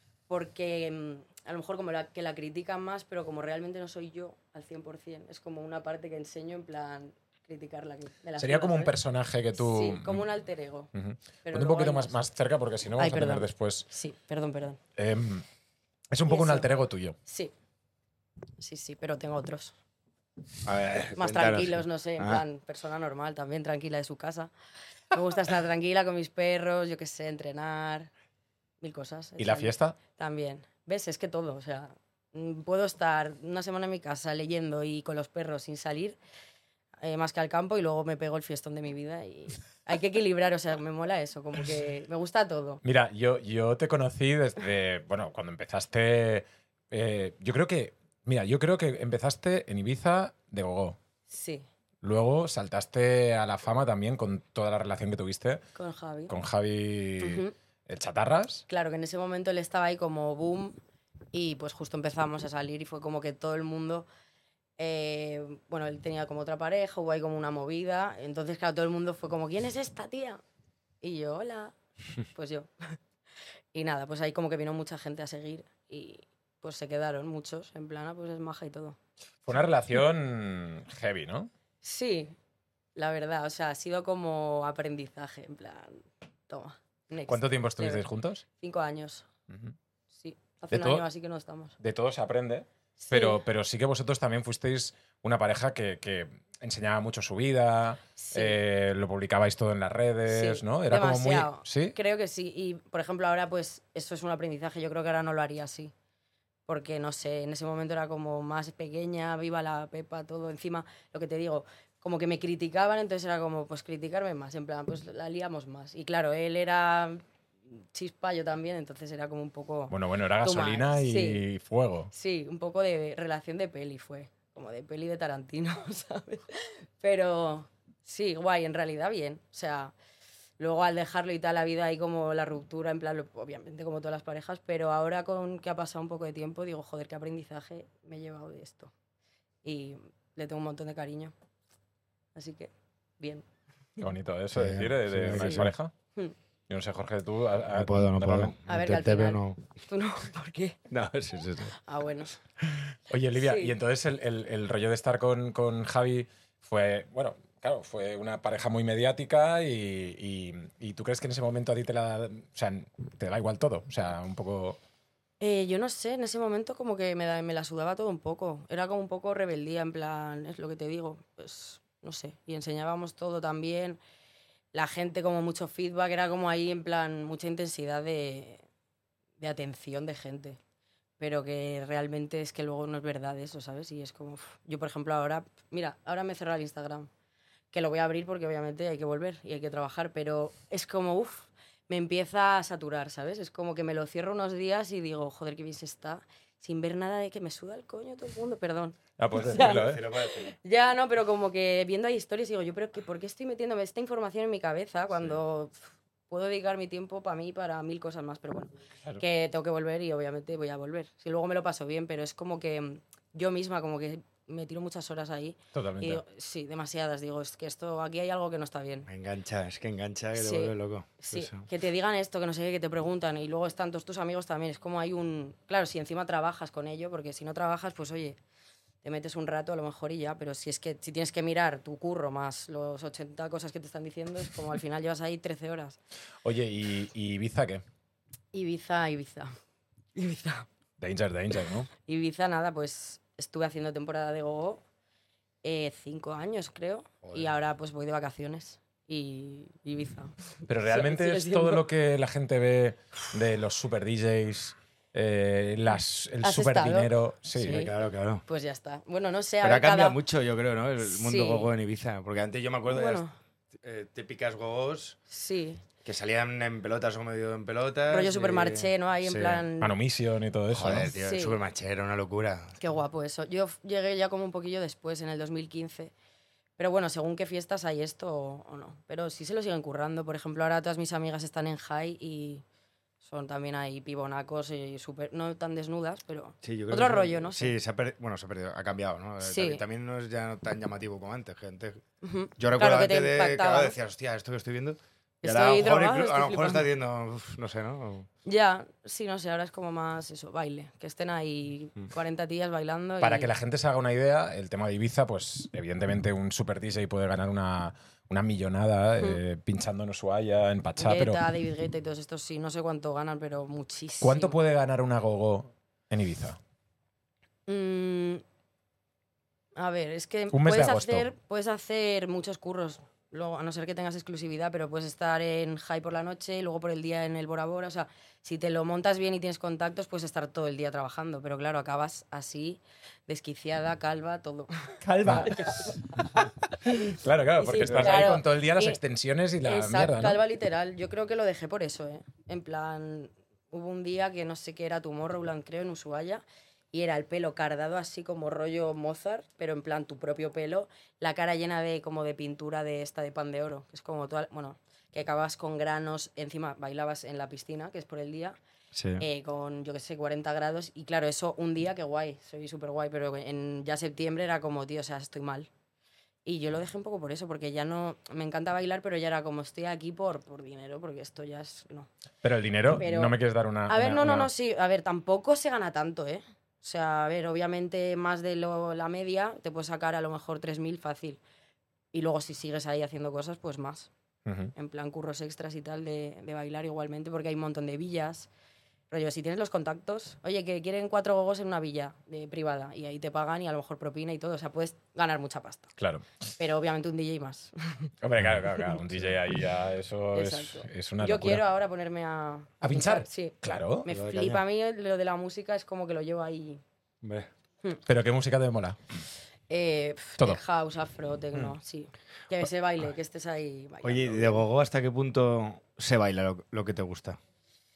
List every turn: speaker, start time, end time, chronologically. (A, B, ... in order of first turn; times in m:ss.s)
0:00.3-0:08.9 A
0:08.4-0:10.2 B
0:09.6-0:10.9 A
0:10.9-0:13.8 B
0:11.4-0:12.2 A
0:13.0-0:14.8 A
0:15.0-0:15.4 B
0:16.1-0:17.2 B
0:16.3-0:17.5 A
0:18.6-0:19.7 A
0:20.6-0:22.4 C
0:21.1-0:24.5 A
0:25.1-0:28.1 A
0:28.8-0:36.2 A
0:29.4-0:30.0 B
0:37.0-0:42.8 A
0:42.8-0:51.0 B
0:51.3-0:51.6 A
0:52.0-0:55.6 B
0:55.8-0:56.3 A
0:56.3-0:58.6 B
0:57.2-0:57.5 A
0:58.7-1:00.8 A
1:01.3-1:04.1 A
1:04.8-1:10.4 A
1:11.0-1:11.7 A
1:12.3-1:13.0 A
1:13.7-1:19.0 A
1:19.4-1:21.5 B
1:21.8-1:22.3 A
1:23.0-1:29.2 A
1:27.3-1:28.4 B
1:29.5-1:29.7 B
1:30.1-1:31.8 A
1:30.7-1:31.0 B
1:31.8-1:42.0 B
1:33.0-1:33.4 A
1:38.2-1:38.6 A
1:40.3-1:45.9 A
1:46.7-2:01.4 A
1:59.9-2:02.1 B
2:02.1-2:09.9 A
2:10.6-2:18.9 A
2:19.6-2:21.3 A
2:22.3-2:23.4 A
2:24.0-2:25.9 B
2:24.5-2:25.7 C
2:25.3-2:25.6 A
2:26.7-2:28.5 B
2:27.7-2:29.6 C
2:28.6-2:30.8 A
2:30.9-2:31.7 C
2:31.8-2:32.3 A
2:33.1-2:44.8 B
2:33.4-2:33.7 A
2:45.4-2:54.0 A
2:54.7-2:58.6 A
2:59.4-3:00.6 A
3:01.2-3:07.1 A
3:07.7-3:25.8 A
3:19.2-3:20.0 B
3:19.5-3:20.5 C
3:26.3-3:39.1 A
3:35.7-3:36.2 B
3:39.1-3:41.6 C
3:40.3-3:48.4 A
3:49.0-3:56.0 A
3:56.4-3:57.8 B
3:58.5-3:59.5 A
4:00.1-4:00.7 A
4:01.0-4:01.9 B
4:02.0-4:04.8 A
4:05.6-4:11.8 A
4:07.2-4:07.5 C
4:10.7-4:17.8 B
4:16.4-4:17.9 A
4:17.6-4:18.4 C
4:18.5-4:20.2 A
4:19.6-4:25.2 C
4:21.1-4:21.7 A
4:22.9-4:23.3 A
4:25.3-4:25.8 A
4:26.0-4:29.6 C
4:28.1-4:29.9 A
4:29.8-4:31.1 B
4:30.7-4:32.8 C
4:31.1-4:31.6 A
4:32.8-4:36.1 A
4:36.8-4:42.6 A
4:43.2-4:47.7 A
4:46.6-4:52.0 C
4:49.4-4:49.8 A
4:52.2-4:53.9 A
4:52.6-4:58.3 C
4:55.4-4:56.9 A
4:58.4-5:03.5 A
5:03.2-5:11.4 B
5:11.0-5:14.6 A
5:14.2-5:16.6 B
5:17.7-5:18.4 A
5:19.7-5:36.5 A
5:20.5-5:21.3 B
5:35.0-5:40.4 B
5:37.6-5:39.0 A
5:39.6-5:58.6 A
5:58.9-5:59.2 C
5:59.2-6:05.7 A
6:06.4-6:12.1 A
6:12.4-6:14.5 B
6:12.9-6:13.4 A
6:13.9-6:21.4 A
6:22.1-6:24.1 A
6:24.4-6:24.7 B
6:24.7-6:28.5 A
6:29.1-6:35.9 A
6:36.0-6:36.2 B
6:36.6-6:38.1 A
6:38.2-6:41.6 B
6:40.3-6:46.8 A
6:42.8-6:44.1 B
6:44.1-6:44.6 C
6:47.2-6:47.5 C
6:48.0-6:49.0 B
6:49.7-6:54.6 A
6:54.0-6:57.4 C